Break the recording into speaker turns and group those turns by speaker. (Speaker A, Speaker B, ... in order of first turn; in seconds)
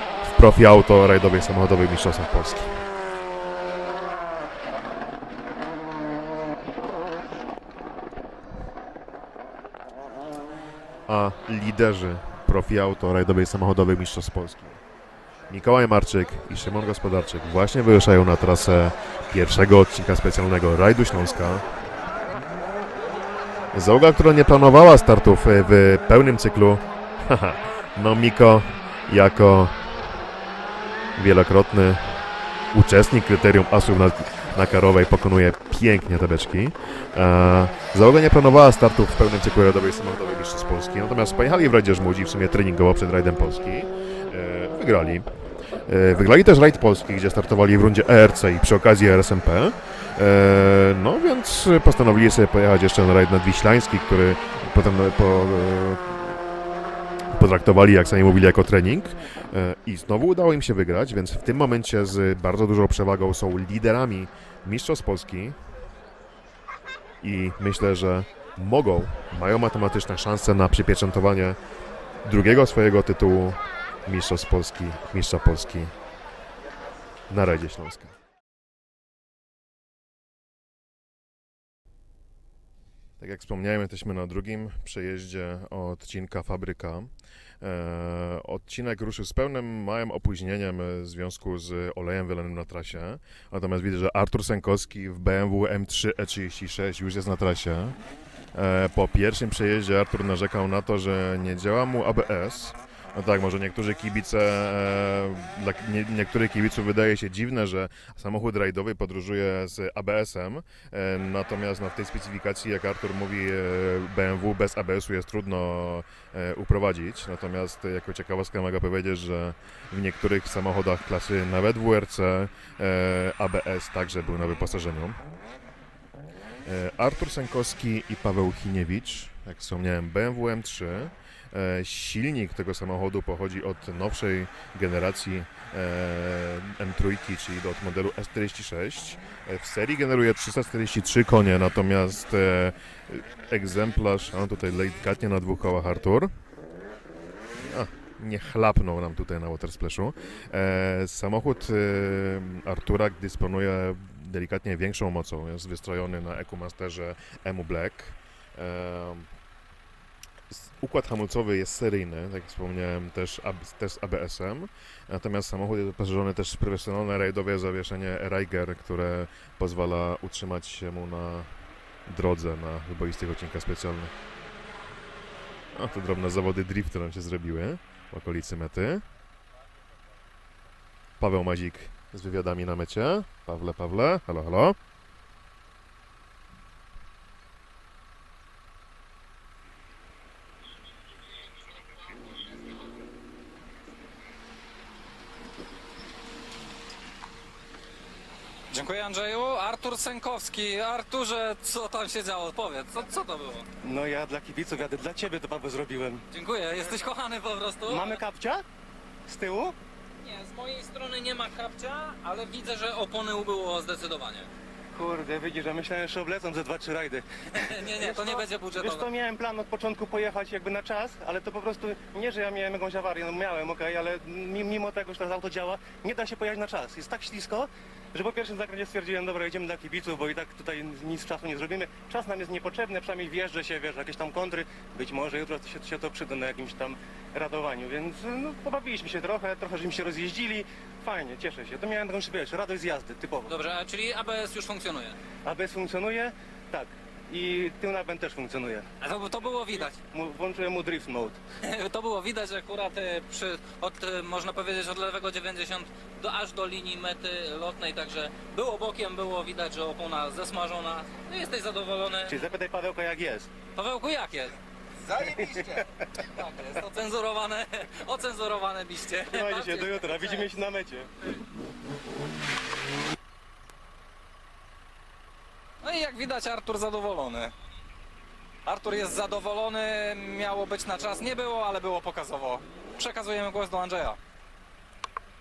Speaker A: 0.2-2.7, 11.1-14.8, 15.5-21.6, 23.7-29.7, 31.2-32.0, 32.7-45.2, 45.9-56.2, 57.4-65.5, 67.2-71.5, 72.2-75.9, 77.3-78.1, 83.2-87.1, 87.6-98.0, 98.5-125.2, 126.6-146.3, 147.7-159.3, 160.5-171.5, 172.1-174.1, 175.7-179.0, 181.2-184.7
Speaker B: 198.7-203.7, 206.3-208.2, 210.2-214.5, 217.5-219.1, 243.5-245.2, 249.0-250.0, 251.6-262.4, 263.7-270.5, 275.8-277.5, 278.6-284.2
Speaker C: 203.8-206.2, 206.8-207.1, 207.8-208.6, 209.3-209.8, 214.9-243.5, 245.4-248.8, 250.1-251.4, 262.3-263.5, 269.3-271.1